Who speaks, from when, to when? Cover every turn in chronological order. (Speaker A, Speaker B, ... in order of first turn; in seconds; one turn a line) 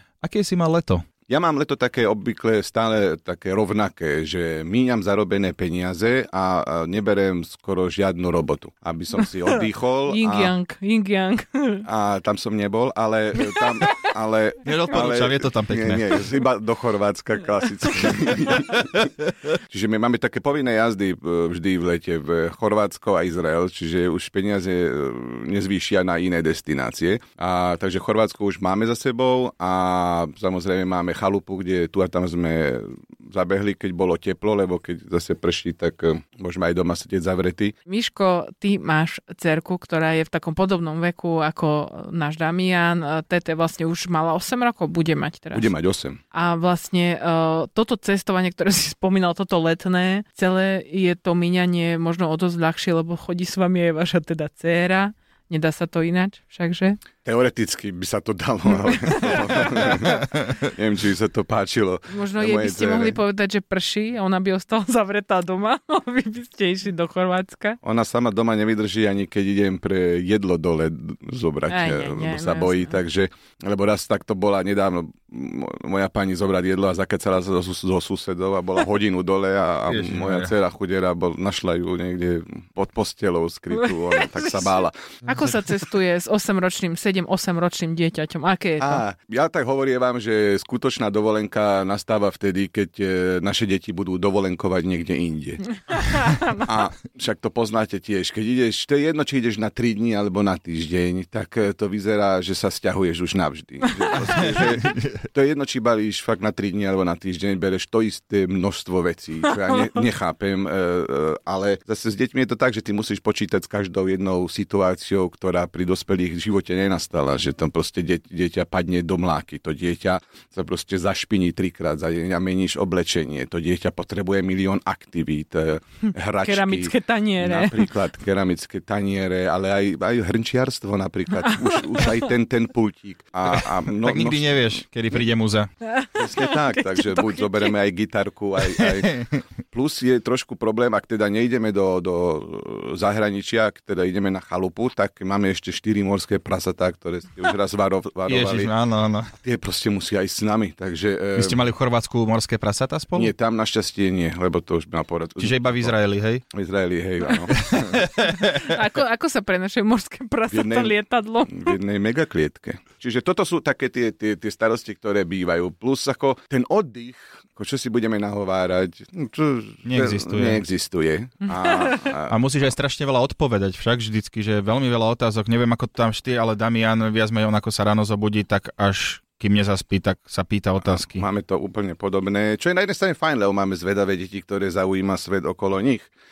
Speaker A: 0.2-1.1
Speaker B: 1.3-10.5
Speaker C: 10.1-11.8
Speaker B: 11.8-37.7
Speaker A: 14.6-16.2
Speaker C: 37.9-45.7
Speaker B: 45.5-46.2
Speaker C: 46.3-57.0
Speaker B: 57.2-63.2
Speaker C: 58.9-59.8
Speaker C: 62.1-67.8
Speaker B: 67.8-85.1
Speaker C: 71.7-73.0
Speaker A: 79.9-80.5
Speaker C: 84.1-84.7
Speaker C: 85.2-89.0
Speaker B: 88.8-95.6
Speaker C: 95.9-96.7
Speaker B: 96.5-135.2
Speaker A: 104.2-105.1
Speaker C: 126.4-127.9
Speaker C: 131.4-132.1
Speaker A: 133.6-135.7
Speaker C: 135.8-137.8
Speaker B: 136.1-148.7
Speaker A: 138.8-139.4
Speaker A: 148.3-149.3
Speaker B: 149.4-151.6
Speaker A: 151.4-153.3
Speaker B: 153.1-155.9
Speaker A: 155.4-156.4
Speaker B: 156.5-158.1
Speaker A: 157.5-158.7
Speaker C: 158.3-161.8
Speaker B: 160.5-160.9
Speaker B: 161.5-172.4
Speaker A: 169.8-170.6
Speaker C: 171.6-171.9
Speaker A: 172.3-181.2
Speaker B: 180.8-186.1